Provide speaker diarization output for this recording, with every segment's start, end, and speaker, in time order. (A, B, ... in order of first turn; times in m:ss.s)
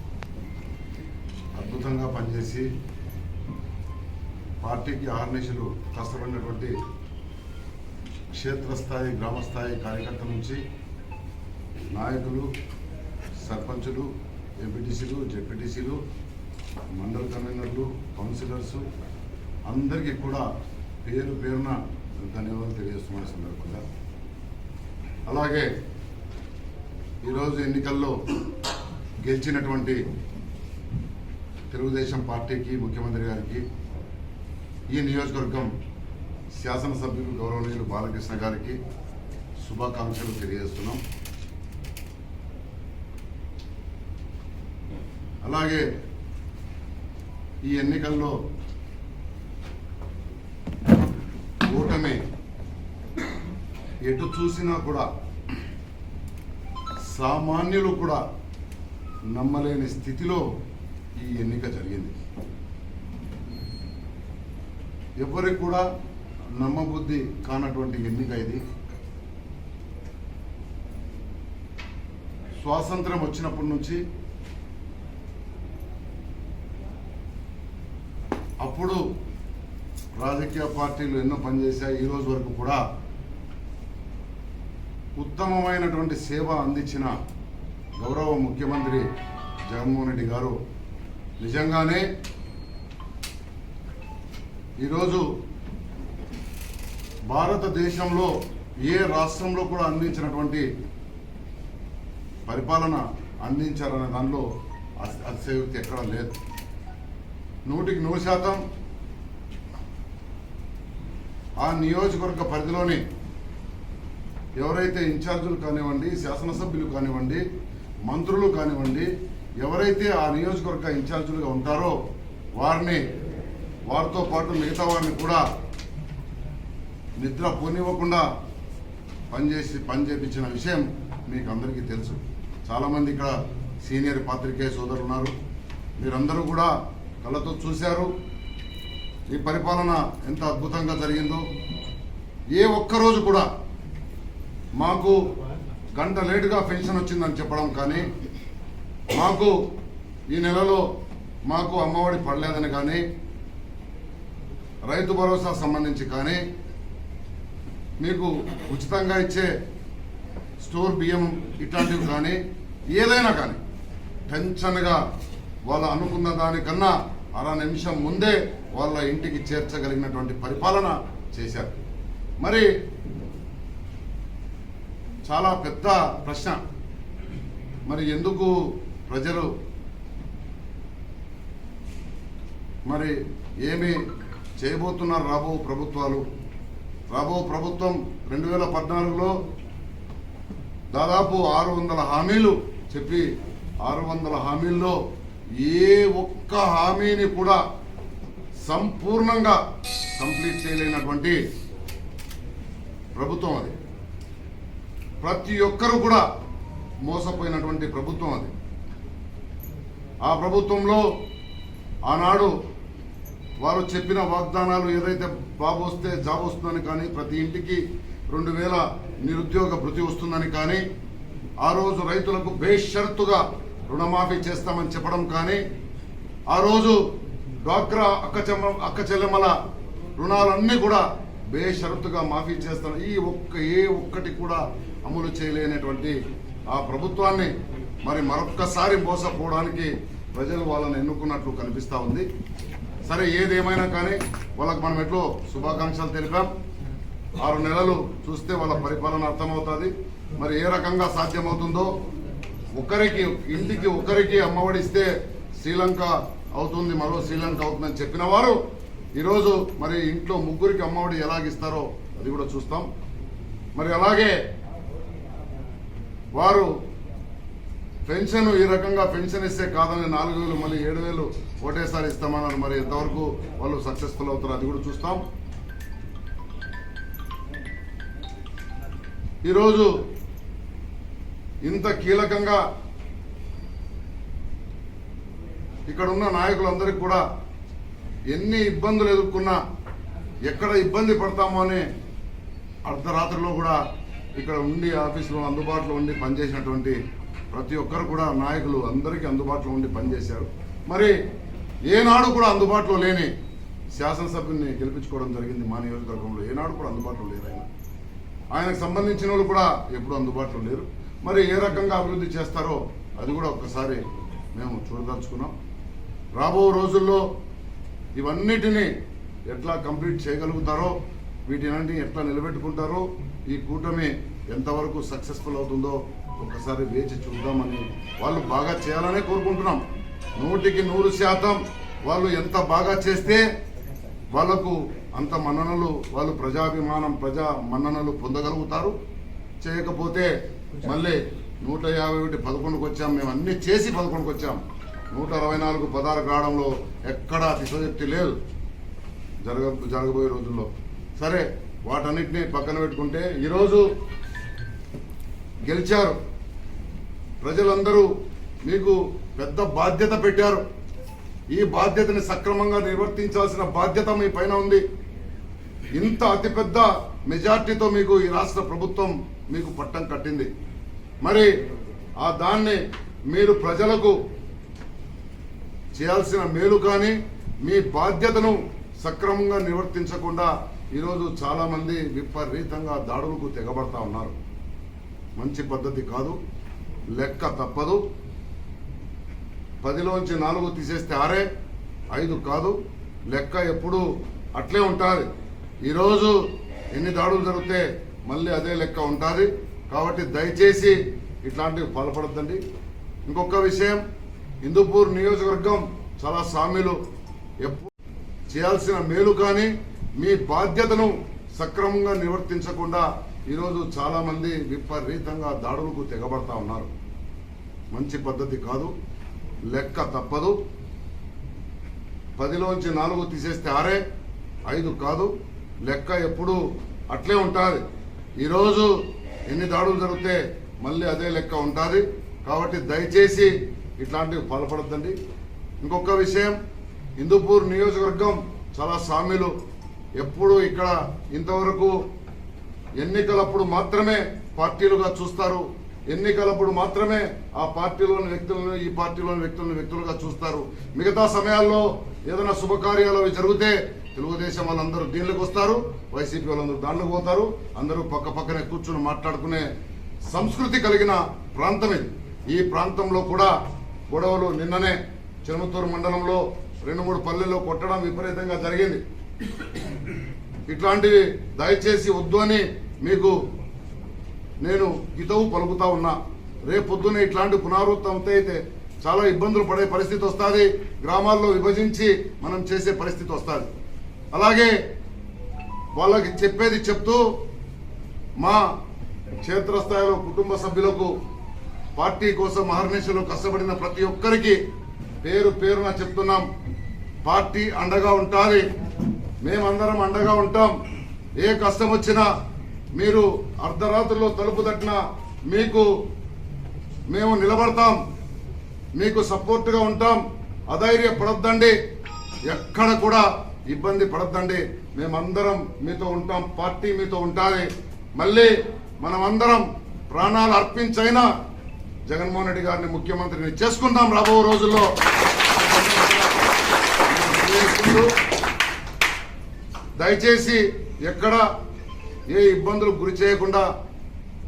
0:01.6-0:02.7 A
0:04.6-0:06.7 A
0:08.3-0:10.6 A
0:11.9-0:12.5 A
0:13.4-0:16.0 A
0:17.0-0:18.8 A
0:19.7-0:20.5 A
0:21.0-0:23.8 A
0:25.3-0:25.7 A
0:27.2-0:28.2 A
0:29.2-0:30.0 A
0:31.7-0:33.6 A
0:34.9-0:35.7 A
0:36.5-0:38.8 A
0:39.6-0:41.0 A
0:45.4-0:45.9 A
0:47.6-0:48.4 A
0:51.6-0:52.2 A
0:54.0-0:55.1 A
0:57.0-0:58.2 A
0:59.3-1:00.4 A
1:01.2-1:02.2 A
1:05.2-1:05.9 A
1:06.6-1:08.6 A
1:12.6-1:14.0 A
1:18.6-1:19.0 A
1:20.2-1:22.8 A
1:25.2-1:27.2 A
1:28.0-1:29.1 A
1:29.6-1:30.6 A
1:31.4-1:32.1 A
1:34.8-1:35.3 A
1:37.3-1:40.7 A
1:42.5-1:44.4 A
1:45.0-1:46.4 A
1:47.6-1:48.6 A
1:51.6-1:53.0 A
1:54.6-1:57.4 A
1:58.1-1:59.1 A
1:59.6-2:02.0 A
2:02.6-2:03.0 A
2:03.9-2:05.4 A
2:07.2-2:08.3 A
2:09.3-2:15.3 A
2:16.0-2:18.1 A
2:19.3-2:21.4 A
2:22.5-2:23.5 A
2:24.8-2:25.2 A
2:25.9-2:28.1 A
2:29.1-2:29.6 A
2:30.3-2:30.8 A
2:31.4-2:33.0 A
2:34.8-2:36.4 A
2:38.0-2:39.5 A
2:40.6-2:42.4 A
2:42.9-2:43.6 A
2:44.3-2:45.0 A
2:45.7-2:51.7 A
2:52.4-2:52.7 A
2:55.3-2:56.6 A
2:57.8-2:59.5 A
3:02.8-3:04.0 A
3:04.6-3:06.2 A
3:07.1-3:09.4 A
3:10.9-3:13.3 A
3:13.8-3:15.0 A
3:15.6-3:17.6 A
3:18.6-3:19.6 A
3:20.1-3:21.4 A
3:23.1-3:23.7 A
3:25.2-3:26.2 A
3:27.0-3:28.5 A
3:30.2-3:31.1 A
3:32.1-3:32.6 A
3:33.6-3:40.8 A
3:41.6-3:45.6 A
3:46.5-3:47.0 A
3:47.6-3:49.6 A
3:50.2-3:56.2 A
3:56.7-3:57.5 A
3:58.0-4:02.2 A
4:03.0-4:06.5 A
4:07.4-4:11.9 A
4:12.7-4:18.6 A
4:19.2-4:22.9 A
4:23.8-4:24.4 A
4:26.3-4:26.7 A
4:28.0-4:35.2 A
4:39.4-4:40.0 A
4:41.6-4:42.6 A
4:45.9-4:47.2 A
4:48.3-4:49.6 A
4:50.4-4:51.9 A
4:52.8-4:53.8 A
4:54.4-4:57.0 A
4:57.5-5:01.2 A
5:01.9-5:03.3 A
5:03.9-5:07.7 A
5:08.5-5:15.5 A
5:16.4-5:17.2 A
5:18.2-5:18.9 A
5:19.5-5:29.8 A
5:30.4-5:33.5 A
5:34.3-5:39.0 A
5:39.6-5:48.4 A
5:49.4-5:53.8 A
5:55.6-5:56.2 A
5:57.4-5:58.1 A
5:58.6-6:00.6 A
6:01.5-6:04.8 A
6:05.9-6:10.5 A
6:11.2-6:11.5 A
6:12.2-6:14.2 A
6:15.9-6:24.4 A
6:25.4-6:26.4 A
6:27.1-6:28.0 A
6:29.8-6:31.5 A
6:32.1-6:32.8 A
6:33.3-6:34.0 A
6:34.6-6:35.3 A
6:35.8-6:42.6 A
6:43.3-6:44.0 A
6:44.6-6:47.0 A
6:47.6-6:47.9 A
6:48.5-6:56.9 A
6:57.9-6:58.9 A
6:59.7-7:00.6 A
7:02.4-7:04.0 A
7:04.7-7:05.3 A
7:05.8-7:06.6 A
7:07.1-7:07.8 A
7:08.4-7:15.2 A
7:15.8-7:16.6 A
7:17.2-7:19.5 A
7:20.2-7:22.0 A
7:23.0-7:39.7 A
7:40.3-7:43.5 A
7:44.1-7:49.0 A
7:50.7-7:53.4 A
7:54.6-8:03.7 A
8:04.3-8:04.8 A
8:05.9-8:07.3 A
8:08.4-8:08.6 A
8:09.4-8:11.1 A
8:12.0-8:14.6 A
8:15.2-8:16.5 A
8:17.2-8:18.7 A
8:19.4-8:20.8 A
8:21.4-8:22.3 A
8:23.0-8:25.9 A
8:27.1-8:28.0 A
8:29.0-8:31.8 A
8:32.5-8:41.3 A
8:42.1-8:44.9 A
8:45.4-8:46.3 A
8:47.0-8:48.1 A
8:50.0-8:51.4 A
8:52.3-8:53.7 A